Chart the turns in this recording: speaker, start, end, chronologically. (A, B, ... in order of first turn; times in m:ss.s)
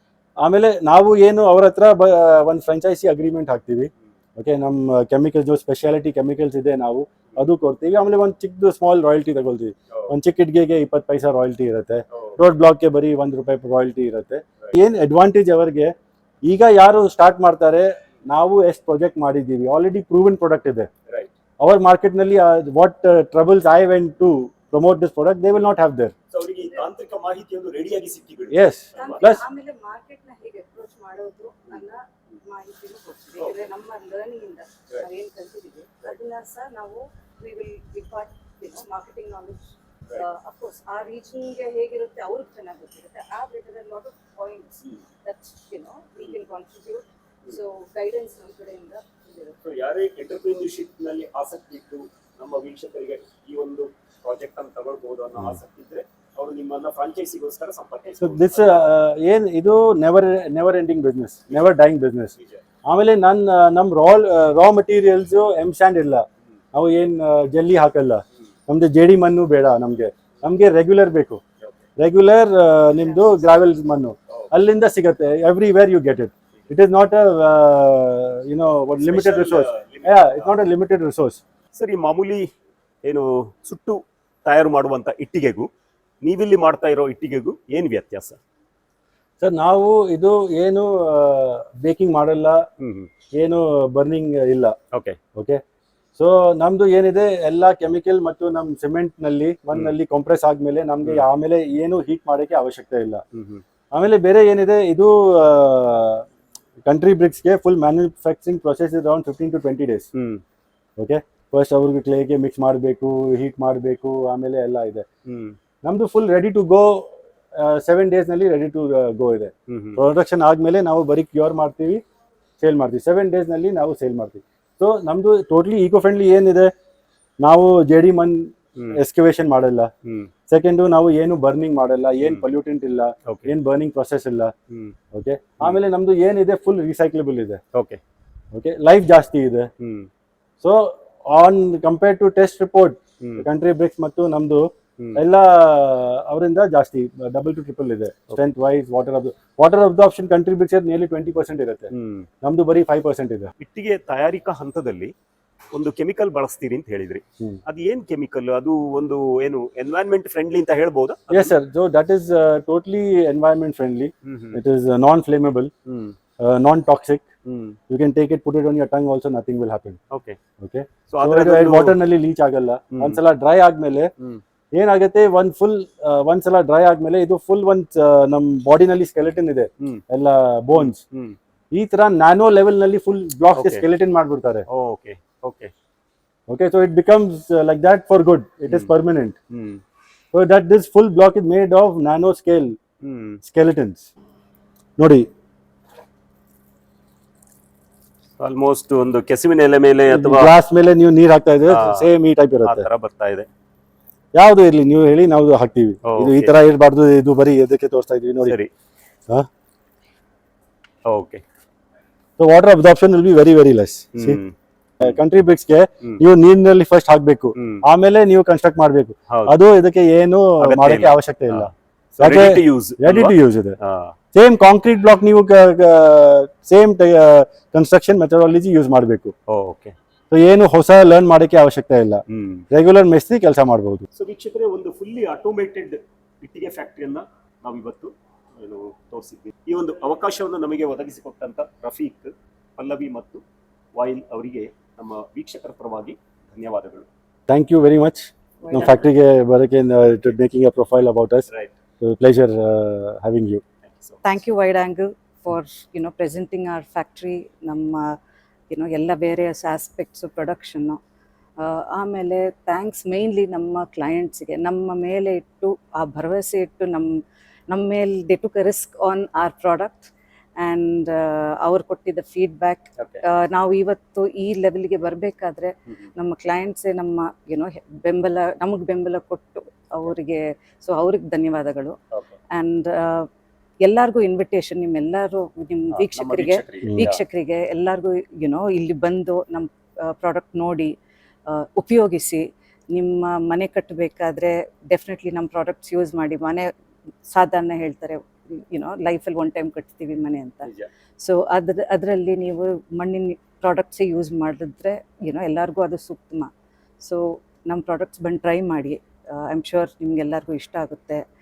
0:00.4-0:20.9 A
0:12.1-0:12.4 B
0:21.6-0:26.1 A
0:26.3-0:29.3 B
0:28.5-0:29.4 A
0:29.0-0:49.6 C
0:49.6-0:58.9 B
0:58.2-1:11.4 A
1:02.4-1:02.6 B
1:12.0-1:21.4 A
1:19.0-1:20.6 B
1:21.7-1:22.5 B
1:23.0-1:25.7 B
1:26.2-1:28.4 B
1:29.4-1:32.6 A
1:32.8-1:33.1 B
1:33.3-1:34.7 A
1:34.9-1:35.2 B
1:35.3-1:35.6 A
1:36.1-1:43.2 A
1:43.3-1:43.6 B
1:43.9-1:46.2 A
1:46.8-1:50.1 A
1:50.1-1:50.4 B
1:51.0-1:55.0 A
1:55.2-1:55.6 B
1:55.8-2:02.0 A
1:59.7-2:00.0 B
2:02.6-2:06.7 A
2:07.4-2:09.9 A
2:10.0-2:10.3 B
2:10.5-2:14.5 A
2:13.3-2:13.5 B
2:14.7-2:15.0 B
2:15.1-2:17.6 A
2:17.7-2:18.0 B
2:18.5-2:19.7 A
2:19.8-2:20.1 B
2:20.6-2:31.9 A
2:23.2-2:23.4 B
2:31.9-2:32.3 B
2:32.4-2:33.5 A
2:33.6-2:35.1 B
2:35.7-2:41.5 B
2:41.3-2:45.7 A
2:44.2-2:44.6 B
2:45.8-2:46.2 B
2:46.4-2:47.3 A
2:47.4-2:47.8 B
2:47.9-2:50.0 A
2:50.1-2:50.4 B
2:50.6-2:54.1 A
2:51.1-2:52.0 B
2:52.9-2:53.2 B
2:54.7-3:01.0 A
3:00.7-3:01.4 B
3:01.7-3:04.7 A
3:03.5-3:03.8 B
3:04.7-3:05.7 B
3:06.5-3:09.4 A
3:08.7-3:08.9 B
3:09.5-3:09.8 B
3:10.3-3:12.8 A
3:13.0-3:13.4 B
3:13.4-3:14.1 A
3:15.0-3:15.3 A
3:18.4-3:20.5 B
3:20.1-3:22.8 A
3:21.7-3:22.1 B
3:22.6-3:23.5 B
3:24.3-3:28.6 A
3:26.0-3:26.6 B
3:28.4-3:28.7 B
3:31.0-3:31.4 B
3:32.4-3:34.4 A
3:34.1-3:34.5 B
3:35.0-3:41.7 A
3:37.6-3:37.8 B
3:39.3-3:39.6 B
3:40.6-3:44.2 B
3:42.2-3:43.8 A
3:44.3-3:49.3 A
3:49.5-3:49.9 B
3:50.3-3:54.0 A
3:52.3-3:52.6 B
3:54.1-4:03.4 B
4:03.9-4:07.1 B
4:07.5-4:11.5 A
4:08.6-4:09.0 C
4:12.0-4:13.6 A
4:13.8-4:14.2 B
4:14.2-4:18.2 C
4:18.7-4:21.0 C
4:21.6-4:42.0 C
4:33.0-4:33.2 B
4:42.5-4:43.3 C
4:43.8-4:50.9 C
4:45.9-4:47.2 B
4:51.5-4:56.7 C
4:57.2-5:06.5 C
5:07.0-5:11.2 C